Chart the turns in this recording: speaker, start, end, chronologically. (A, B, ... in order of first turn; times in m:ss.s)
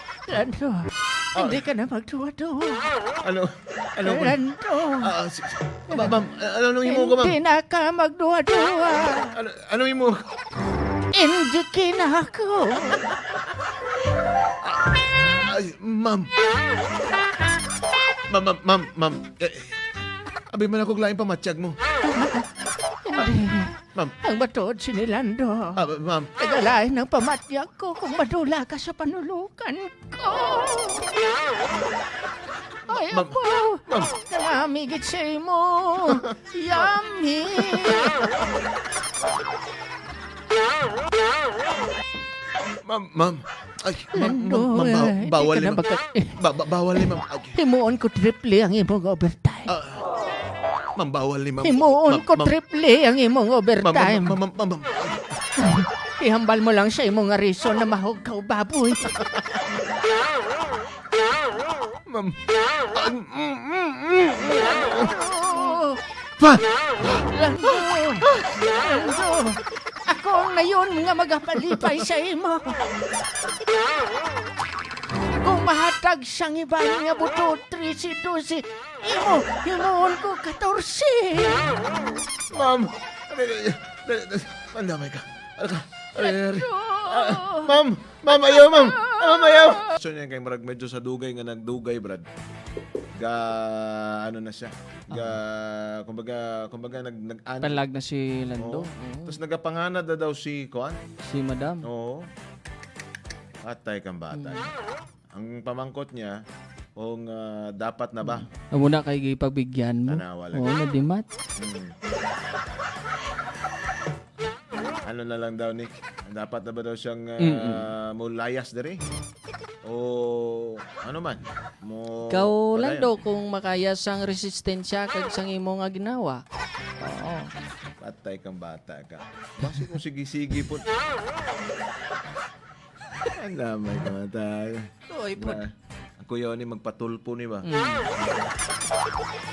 0:00.2-0:02.9 A
0:01.3-0:01.7 B
0:03.2-0:04.4 B
0:04.0-0:05.1 A
0:05.0-0:07.4 B
0:05.9-0:06.2 A
0:06.8-0:09.4 A
0:09.3-0:10.4 B
0:11.1-0:13.1 A
0:14.6-0:16.3 B
0:18.1-0:19.9 B
0:20.5-0:21.8 B
0:22.0-0:25.8 A
0:25.8-0:26.3 B
0:26.4-0:31.2 A
0:32.8-0:38.3 A
0:32.9-0:34.1 B
0:36.0-0:36.3 B
0:37.5-0:38.4 B
0:42.7-0:45.8 B
0:44.1-0:46.4 A
0:46.4-0:47.6 B
0:47.5-0:49.7 A
0:49.7-0:50.0 B
0:51.0-0:52.5 B
0:51.6-0:54.4 A
0:53.8-0:55.5 B
0:55.6-0:59.2 A
0:59.0-0:59.6 B
1:02.0-1:02.4 B
1:02.9-1:05.2 B
1:04.8-1:06.0 A
1:06.4-1:08.7 B
1:07.0-1:12.8 A
1:15.3-1:21.8 A
1:22.5-1:32.3 B
1:26.2-1:27.8 A
1:28.4-1:29.9 A
1:33.1-1:37.8 B
1:35.1-1:35.4 C
1:37.6-1:39.4 C
1:38.6-1:41.0 B
1:41.2-1:41.9 C
1:41.8-1:42.3 B
1:43.6-1:44.7 B
1:44.3-1:44.7 C
1:45.3-1:46.4 B
1:47.0-1:48.5 B
1:48.2-1:51.2 C
1:50.0-1:50.7 B
1:51.6-1:52.0 B
1:55.0-1:59.0 B
1:57.4-1:57.9 C
1:59.8-2:03.1 B
2:02.3-2:06.4 C
2:07.0-2:07.5 C
2:08.0-2:10.9 B
2:13.3-2:17.7 B
2:15.2-2:15.6 C
2:17.6-2:18.1 C